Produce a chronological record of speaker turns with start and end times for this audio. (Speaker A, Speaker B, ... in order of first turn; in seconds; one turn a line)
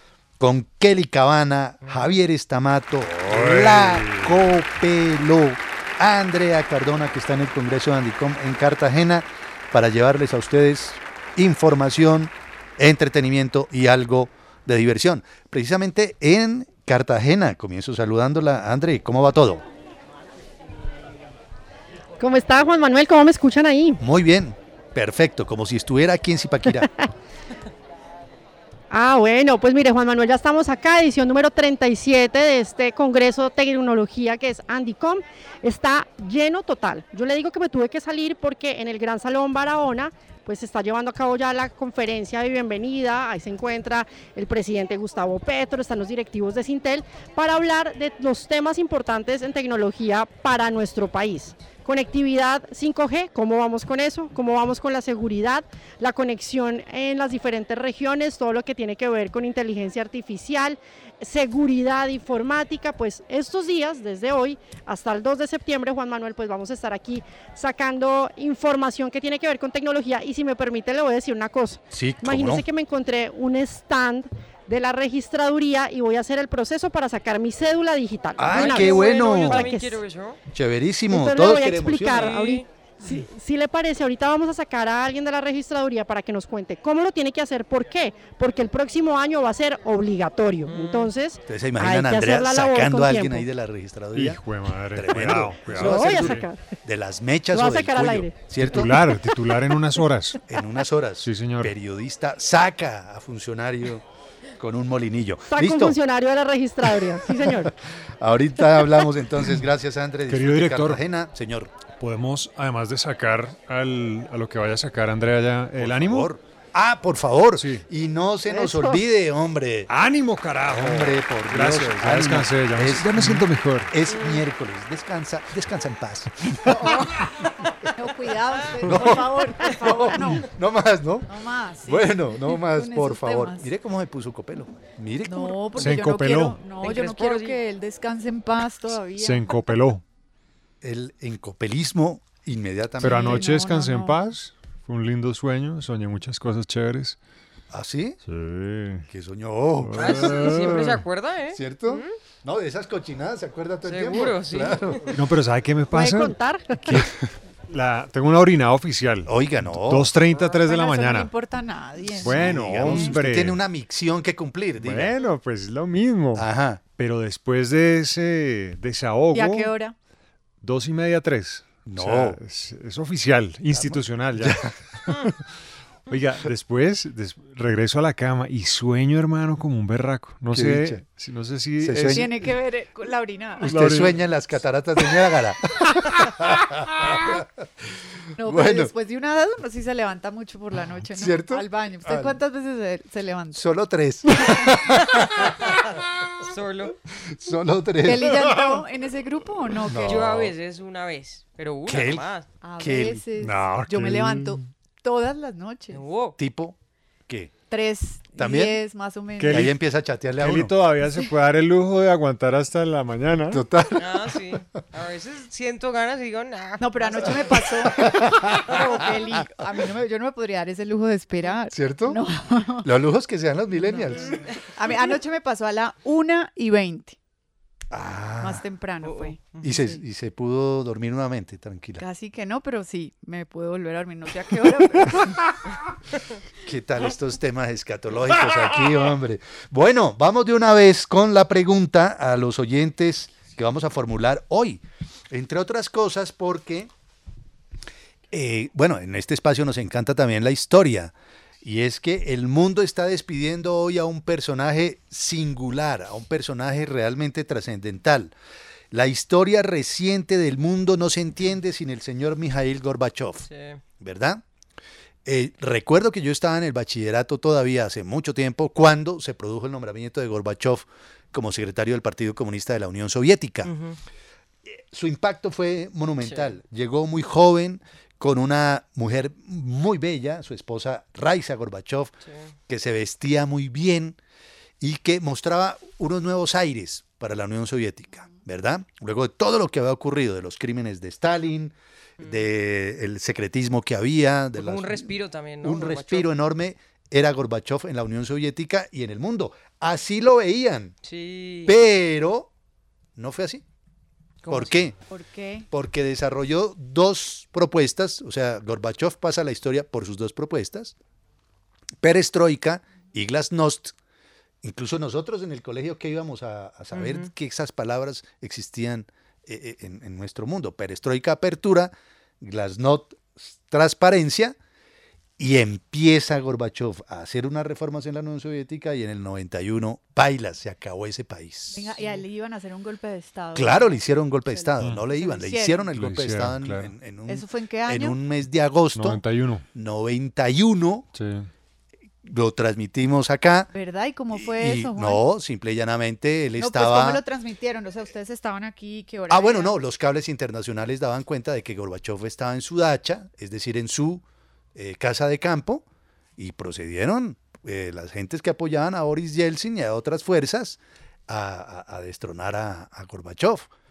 Speaker A: 0.4-19.6
Speaker B: 3.2-4.3
Speaker C: 22.2-24.0
Speaker A: 24.0-26.9
Speaker C: 28.9-80.0
Speaker A: 71.9-72.6
Speaker A: 78.4-79.7
Speaker D: 78.5-80.4
Speaker A: 80.5-82.3
Speaker C: 81.1-93.5
Speaker D: 82.1-82.6
Speaker D: 90.7-91.1
Speaker A: 91.5-94.4
Speaker B: 94.1-96.5
Speaker A: 94.9-99.0
Speaker C: 95.7-96.6
Speaker C: 97.5-98.4
Speaker B: 98.6-100.4
Speaker A: 100.5-104.0
Speaker B: 101.2-101.7
Speaker A: 104.6-106.0
Speaker C: 105.5-107.7
Speaker A: 107.4-107.7
Speaker A: 108.2-111.8
Speaker B: 110.3-111.0
Speaker B: 111.9-116.3
Speaker A: 115.8-119.9
Speaker B: 117.6-117.8
Speaker C: 118.5-119.0
Speaker B: 119.9-123.9
Speaker A: 120.7-126.9
Speaker E: 126.6-127.2
Speaker E: 127.9-130.5
Speaker A: 128.8-131.3
Speaker E: 131.3-133.7
Speaker A: 131.8-135.8
Speaker E: 135.2-139.7
Speaker B: 135.8-136.6
Speaker D: 136.8-137.6
Speaker B: 139.2-140.0
Speaker A: 140.8-143.4
Speaker E: 143.0-144.2
Speaker B: 143.0-147.2
Speaker A: 147.7-148.2
Speaker B: 148.3-149.0
Speaker A: 149.1-150.7
Speaker B: 149.8-151.0
Speaker D: 150.0-152.1
Speaker A: 151.5-155.0
Speaker D: 153.8-155.0
Speaker B: 155.1-156.3
Speaker C: 155.9-157.0
Speaker B: 157.7-161.3
Speaker A: 159.2-160.1
Speaker E: 160.3-163.1
Speaker A: 162.2-165.2
Speaker B: 162.2-163.6
Speaker B: 164.8-166.4
Speaker A: 166.3-166.8
Speaker B: 167.0-169.7
Speaker E: 169.3-169.9
Speaker B: 170.6-174.6
Speaker A: 171.8-172.4
Speaker A: 173.7-174.7
Speaker B: 176.1-182.3
Speaker A: 180.5-181.0
Speaker A: 181.8-182.3
Speaker E: 182.1-183.7
Speaker B: 183.6-184.2
Speaker A: 183.6-187.4
Speaker E: 188.4-193.6
Speaker A: 188.4-188.9
Speaker A: 191.2-192.4
Speaker A: 193.5-195.2
Speaker D: 196.4-196.9
Speaker A: 197.3-198.6
Speaker E: 198.1-200.3
Speaker A: 199.9-200.5
Speaker D: 200.1-202.5
Speaker A: 201.9-202.3
Speaker E: 202.6-206.0
Speaker A: 202.8-203.2
Speaker B: 203.4-204.6
Speaker D: 205.9-206.4
Speaker A: 206.4-206.8
Speaker E: 207.7-209.7
Speaker A: 208.3-208.8
Speaker B: 209.4-209.7
Speaker A: 209.5-210.7
Speaker B: 210.4-213.6
Speaker A: 213.5-214.1
Speaker D: 214.0-217.3
Speaker E: 216.8-222.9
Speaker A: 218.0-218.7
Speaker A: 221.7-222.2
Speaker A: 222.8-224.4
Speaker E: 224.7-227.2
Speaker A: 227.9-228.6
Speaker E: 228.4-230.0
Speaker D: 229.0-229.7
Speaker A: 229.6-232.0
Speaker E: 232.0-235.4
Speaker A: 236.6-246.9
Speaker A: 248.3-258.3
Speaker A: 258.9-263.5
Speaker D: 263.5-263.8
Speaker A: 264.0-264.4
Speaker A: 265.2-273.7
Speaker D: 273.6-274.0
Speaker A: 274.7-282.1
Speaker D: 276.2-276.5
Speaker A: 282.7-284.2
Speaker A: 284.8-300.9
Speaker D: 294.6-296.3
Speaker D: 301.0-301.7
Speaker A: 301.6-302.5
Speaker A: 303.2-303.6
Speaker D: 304.4-304.9
Speaker A: 304.5-304.9
Speaker E: 305.1-305.7
Speaker A: 305.7-310.9
Speaker A: 312.0-313.9
Speaker A: 314.6-324.6
Speaker D: 316.9-317.3
Speaker A: 325.4-332.0
Speaker E: 331.7-335.9
Speaker A: 333.5-339.2
Speaker B: 335.9-336.9
Speaker E: 337.3-338.2
Speaker B: 338.9-339.6
Speaker A: 339.7-341.1
Speaker B: 341.1-341.5
Speaker A: 342.2-343.7
Speaker E: 343.7-345.2
Speaker A: 344.3-347.2
Speaker E: 346.6-349.8
Speaker A: 349.3-354.2
Speaker A: 354.7-355.8
Speaker A: 356.4-363.7